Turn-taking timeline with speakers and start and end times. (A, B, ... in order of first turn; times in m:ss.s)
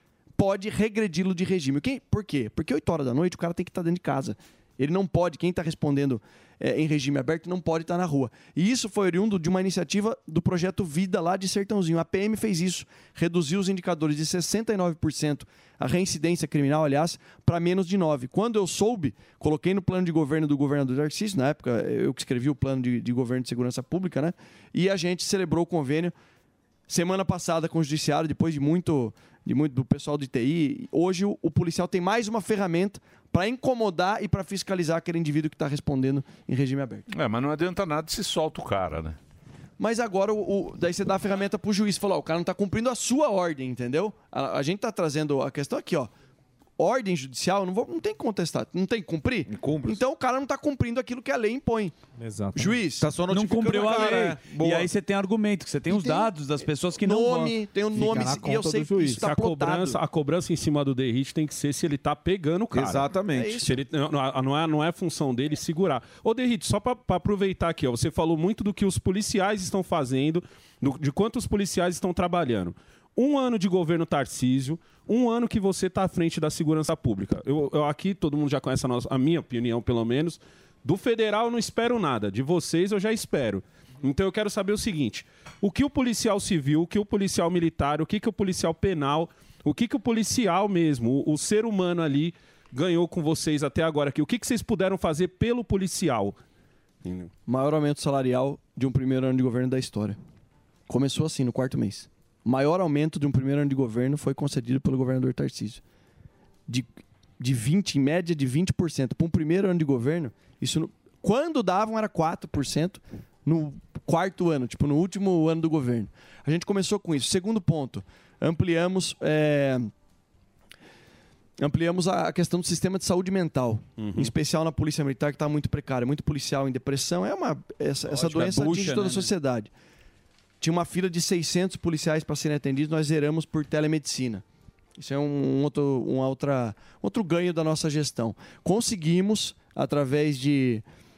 0:00.4-0:26.1 A
0:26.9-0:37.1 A
0:37.1-0:39.2 B
0:39.8-0:46.1 A
0:46.8-0:52.0 A
0:49.5-0:50.0 C
0:52.2-0:52.8 D
0:52.6-0:53.2 A
0:53.0-0:54.9 C
0:53.2-0:57.6 E
0:53.9-0:54.2 A
0:57.0-1:00.0 A
0:57.9-0:59.2 D
0:59.2-1:03.1 F
1:02.7-1:03.6 C
1:03.3-1:03.8 A
1:03.6-1:36.4 F
1:37.5-1:40.2 A
1:40.9-1:45.8 A
1:47.4-1:59.9 A
2:01.6-2:09.7 A
2:04.0-2:04.3 F
2:08.1-2:09.3 E
2:10.6-2:14.4 A
2:15.0-2:20.8 A